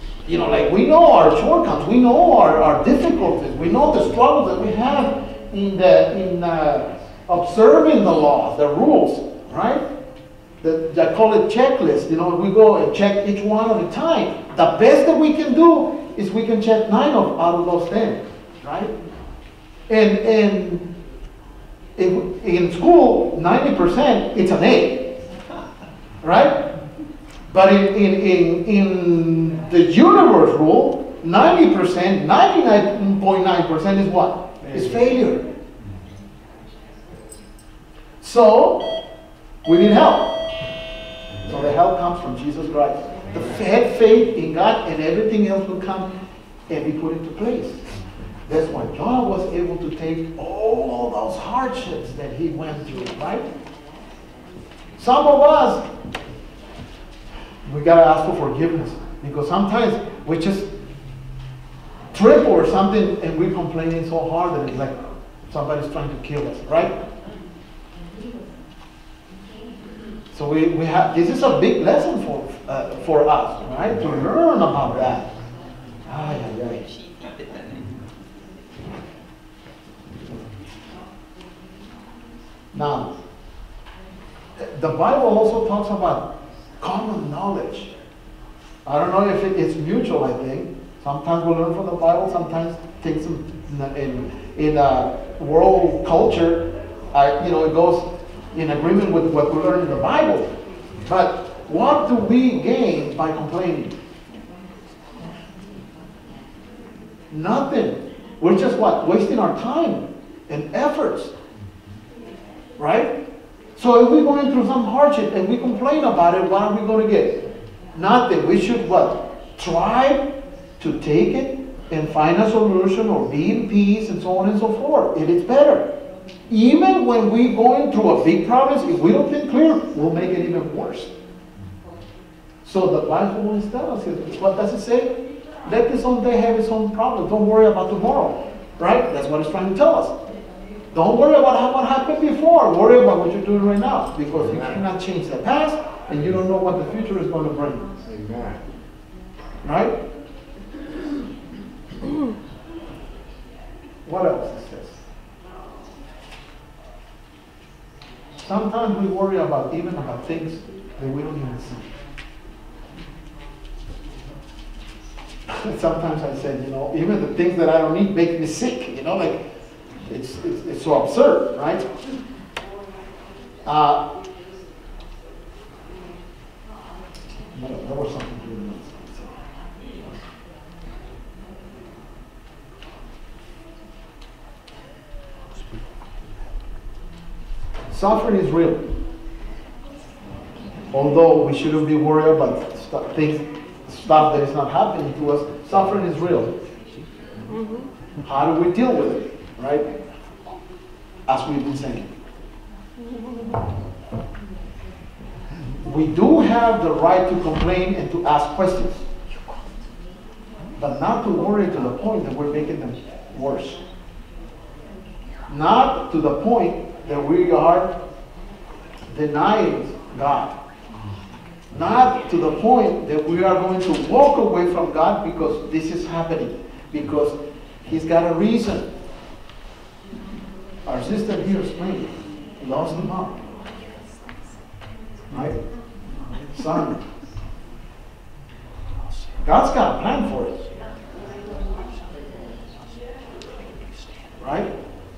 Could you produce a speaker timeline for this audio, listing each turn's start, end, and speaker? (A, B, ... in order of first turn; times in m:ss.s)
0:00.2-0:09.8 A
0:10.6-0:18.9 A
0:19.9-0:20.8 A
0:22.0-0:25.1 A
0:26.2-0:26.6 A
0:27.5-0:35.4 A
0:34.6-0:35.0 B
0:38.2-0:38.9 A
0:39.6-0:40.5 A
0:41.4-0:41.7 B
0:41.5-0:46.1 A
0:43.3-0:43.6 B
0:46.7-0:47.8 A
0:48.5-0:53.5 A
0:55.0-0:55.8 A
0:57.6-1:00.7 A
1:02.1-1:05.0 A
1:05.5-1:06.9 A
1:10.3-1:15.3 A
1:13.9-1:14.2 B
1:16.0-1:16.8 A
1:22.7-1:23.2 A
1:24.6-1:26.2 A
1:26.8-1:27.9 A
1:28.8-1:40.5 A
1:41.0-1:43.9 A
1:47.3-1:51.3 A
1:52.8-1:53.1 A
1:53.8-1:57.4 A
1:57.9-2:00.2 A
2:00.8-2:05.9 A
2:06.5-2:11.1 A
2:12.6-2:15.1 A
2:15.6-2:20.1 A
2:20.9-2:27.9 A
2:24.3-2:24.8 B
2:28.0-2:28.6 B
2:29.6-2:29.9 A
2:34.0-2:35.0 A
2:38.4-2:41.9 A
2:45.5-2:49.4 A
2:50.1-2:51.8 A
2:53.6-2:54.0 A
2:57.5-2:59.4 A
3:07.9-3:08.8 A
3:10.9-3:16.5 A
3:18.2-3:19.9 A
3:21.3-3:22.1 A
3:25.8-3:29.0 A
3:30.8-3:33.8 A
3:35.5-3:37.9 A
3:39.1-3:40.5 A
3:41.7-3:48.9 A
3:50.8-3:53.4 A
3:55.3-3:55.6 A
3:56.4-3:57.0 A
3:59.4-4:00.6 A
4:04.4-4:04.7 A